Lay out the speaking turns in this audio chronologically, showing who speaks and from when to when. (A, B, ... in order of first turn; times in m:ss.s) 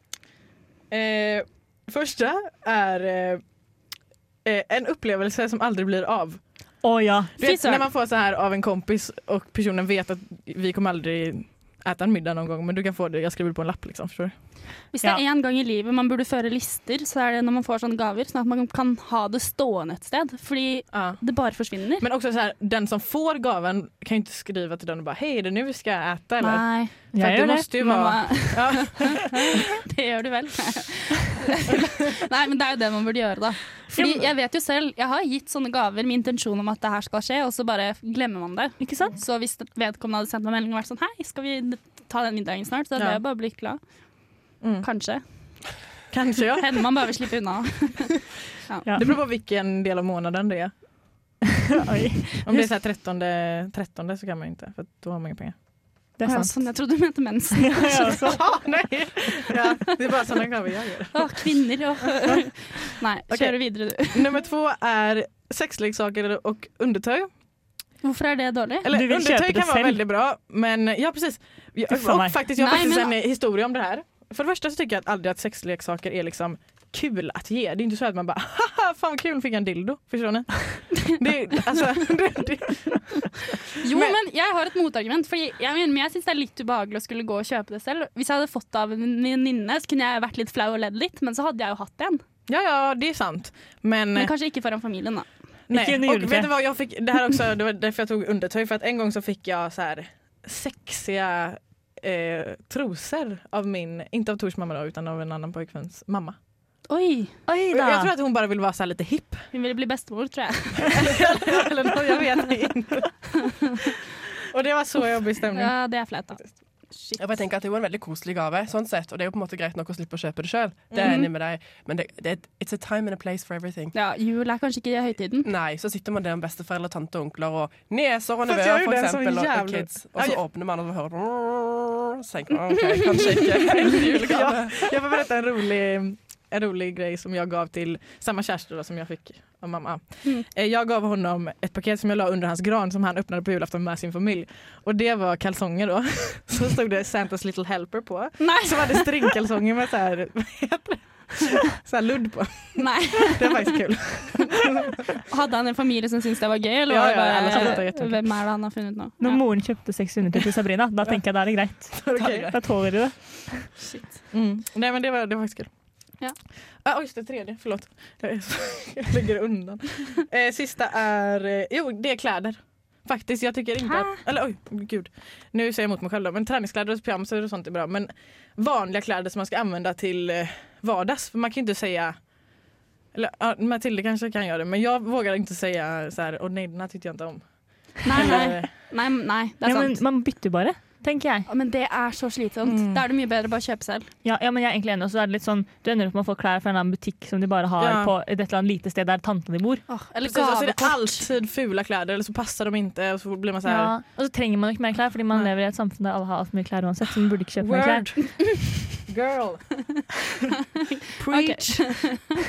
0:00.9-0:03.4 A
0:04.4-0:06.4 A
0:06.8-0:07.3 B
0:07.4-0:14.3 A
0:07.4-0:07.8 C
0:14.9-0:22.0 C
0:20.9-0:21.3 A
0:22.0-0:29.3 A
0:26.4-0:43.8 C
0:27.1-0:28.0 B
0:33.9-0:34.3 B
0:38.8-0:39.2 B
0:43.0-0:43.2 A
0:44.6-0:44.9 A
0:44.8-0:45.2 C
0:46.1-0:47.2 A
0:46.6-0:48.9 C
0:48.8-0:49.2 B
0:48.9-0:50.8 A
0:51.7-0:52.7 B
0:52.4-0:55.6 A
0:56.2-0:56.5 B
0:56.2-0:58.3 C
0:57.5-0:58.4 B
0:58.2-1:01.5 A
1:01.1-1:04.3 C
1:03.3-1:07.3 A
1:08.0-1:08.9 C
1:08.8-1:24.1 A
1:08.9-1:10.0 B
1:11.9-1:12.4 B
1:12.5-1:13.1 C
1:23.8-1:32.2 C
1:32.5-1:34.3 A
1:34.2-1:35.2 C
1:35.7-1:46.4 A
1:35.7-1:36.5 B
1:46.9-1:47.3 C
1:47.5-1:48.1 B
1:47.7-1:49.5 A
1:49.5-1:51.1 C
1:50.9-1:53.7 A
1:54.5-1:55.8 A
1:55.5-1:57.2 C
1:57.2-2:03.9 D
2:00.9-2:01.3 A
2:01.0-2:01.3 C
2:03.9-2:05.5 C
2:05.4-2:15.0 D
2:08.5-2:10.4 A
2:14.0-2:35.0 A
2:28.4-2:29.1 C
2:32.8-2:33.7 C
2:35.3-2:39.4 C
2:36.9-2:38.2 A
2:37.5-2:37.8 B
2:39.2-2:43.7 B
2:42.0-2:42.5 A
2:42.1-2:42.6 D
2:43.8-2:44.2 C
2:44.3-2:45.7 A
2:46.8-3:02.2 A
2:53.8-2:54.2 C
3:03.1-3:08.7 A
3:08.0-3:10.0 C
3:09.6-3:11.5 B
3:11.5-3:14.1 C
3:12.6-3:13.0 A
3:14.2-3:19.8 B
3:17.8-3:18.1 A
3:19.9-3:21.3 C
3:20.2-3:23.9 A
3:23.6-3:28.1 B
3:27.6-3:28.4 A
3:29.0-3:29.8 A
3:31.2-3:32.0 B
3:31.3-3:32.2 C